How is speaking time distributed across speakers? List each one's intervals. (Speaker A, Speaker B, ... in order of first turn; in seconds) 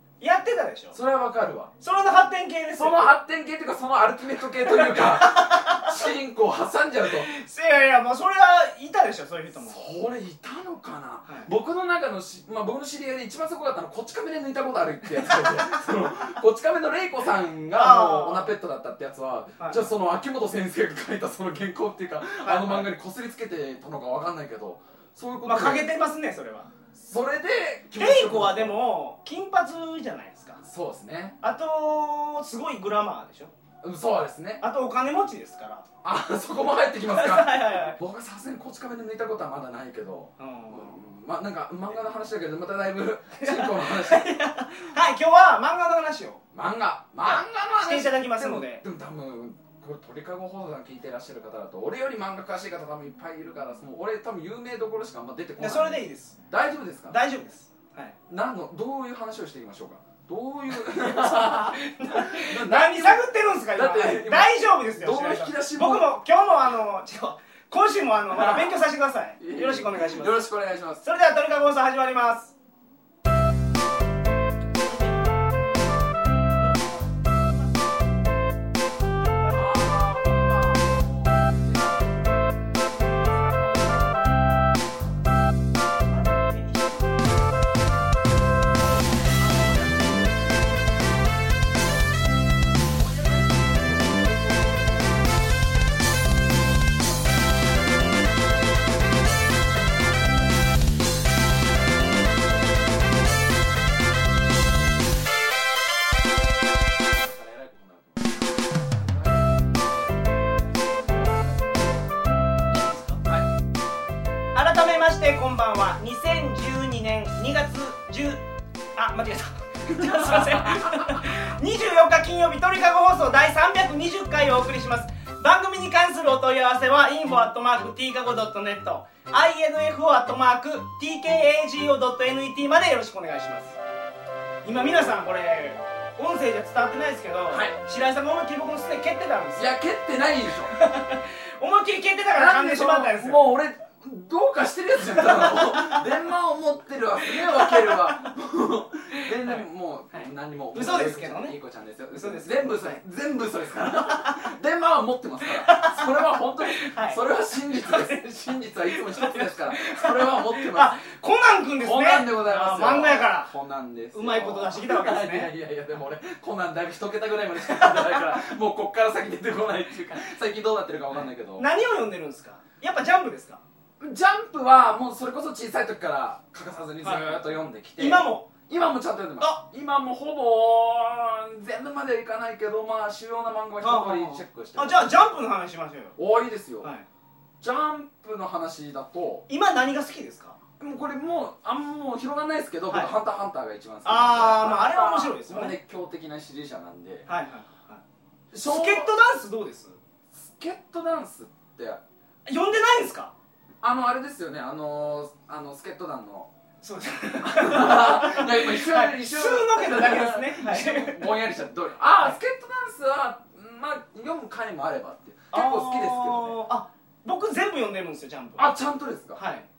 Speaker A: 0.2-1.0, 1.8-3.1, 4.7-6.1, 7.1-9.8, 11.3-11.5, 17.7-18.5, 19.6-19.9, 22.4-22.9, 25.4-26.7, 28.0-30.6, 31.4-33.5, 34.6-35.9, 37.0-38.0, 40.4-41.0, 43.4-46.4, 47.2-48.8, 55.6-56.4, 57.1-58.2, 60.8-70.4, 71.0-72.5, 76.6-77.2, 86.1-87.2, 112.7-113.2, 114.5-118.4, 119.0-133.8, 134.6-139.7, 140.8-143.4, 145.2-146.0, 147.3-148.1, 149.4-151.6, 152.2-153.0, 155.4-157.2, 157.7-163.5, 164.1-165.5, 167.6-168.3, 171.1-173.6, 177.0-177.4, 178.0-178.5, 183.8-186.2, 189.5-190.6, 194.1-195.8, 197.3-198.0, 198.6-200.0, 202.5-203.3, 206.8-211.3, 215.5-218.7, 219.4-219.7
Speaker B: 0.9-1.7, 2.8-7.3, 9.7-25.9, 26.9-28.8, 30.6-31.4, 33.8-34.6, 36.0-44.4, 46.5-57.2, 58.3-66.1, 68.3-68.9, 69.4-71.0, 79.5-82.3, 83.1-84.3, 89.4-90.3, 92.9-94.8, 107.1-111.6, 119.9-121.2, 137.5-137.8, 139.6-140.7, 142.3-160.9, 161.8-171.7, 174.0-185.1, 186.2-186.9, 187.6-189.4, 190.8-197.3, 198.5-199.1, 200.3-202.0, 203.8-206.5, 207.4-216.6, 218.6-219.4